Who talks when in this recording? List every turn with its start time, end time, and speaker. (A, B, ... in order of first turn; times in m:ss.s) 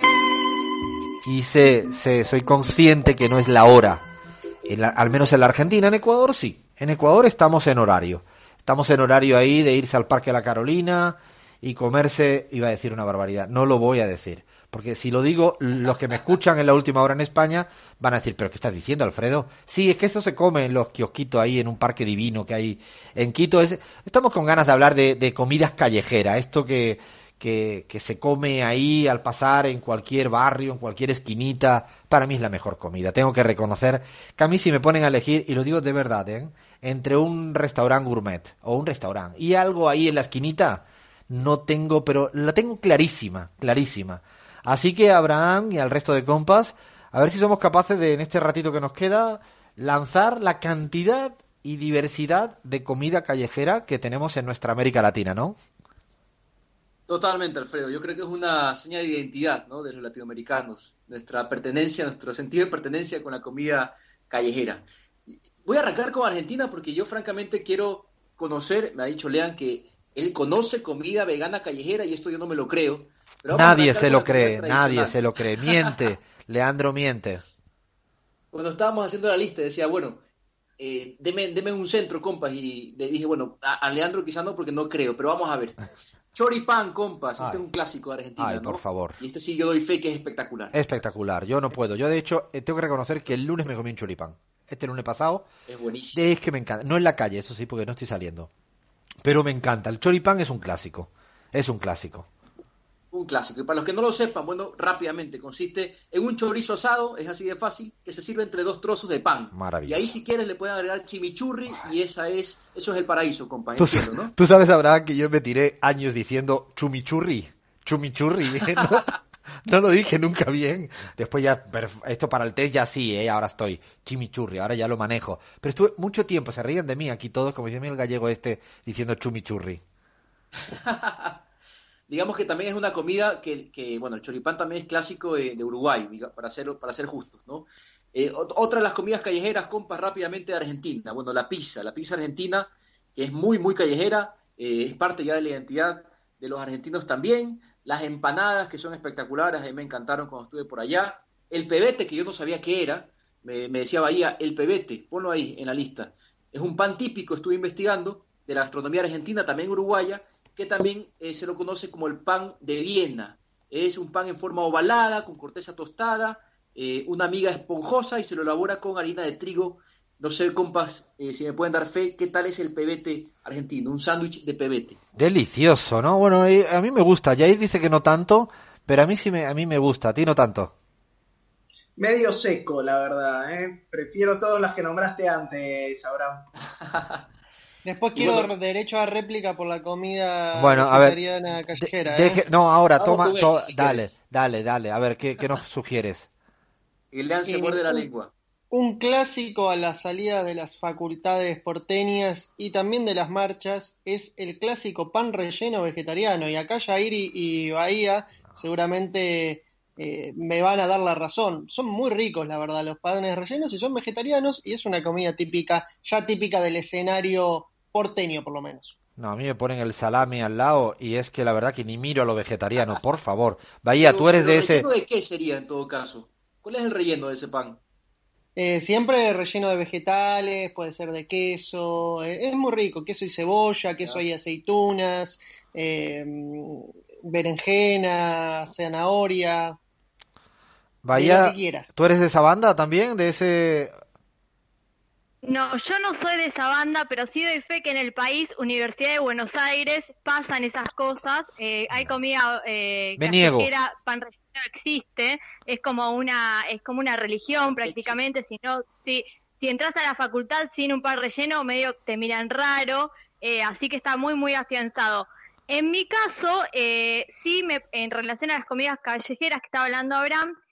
0:01.2-0:04.1 A
0:04.6-0:55.6 A
0:57.1-1:04.8 B
1:05.6-1:15.3 B
1:13.5-1:17.4 A
1:18.5-1:20.2 B
1:20.8-1:25.8 B
1:26.3-1:30.8 B
1:28.4-1:29.2 A
1:30.7-1:35.5 A
1:35.7-1:36.3 B
1:36.1-1:38.5 A
1:39.2-1:42.3 A
1:43.1-1:54.3 B
1:49.5-1:50.1 A
1:53.8-2:09.8 A
2:10.7-2:11.4 B
2:12.1-2:55.0 B
2:55.2-3:00.7 A
3:02.0-3:06.5 C
3:07.0-3:07.2 B
3:07.8-3:12.4 D
3:08.2-3:08.5 B
3:10.5-3:11.2 A
3:11.8-3:16.3 A
3:13.0-3:14.1 B
3:17.1-3:18.3 B
3:17.5-3:18.1 D
3:18.7-3:38.9 D
3:39.2-3:44.9 A
3:44.0-3:47.8 B
3:48.6-3:59.8 D
4:01.0-4:03.9 A
4:01.1-4:01.9 D
4:05.4-4:30.5 E
4:13.2-4:13.7 A
4:17.7-4:18.2 B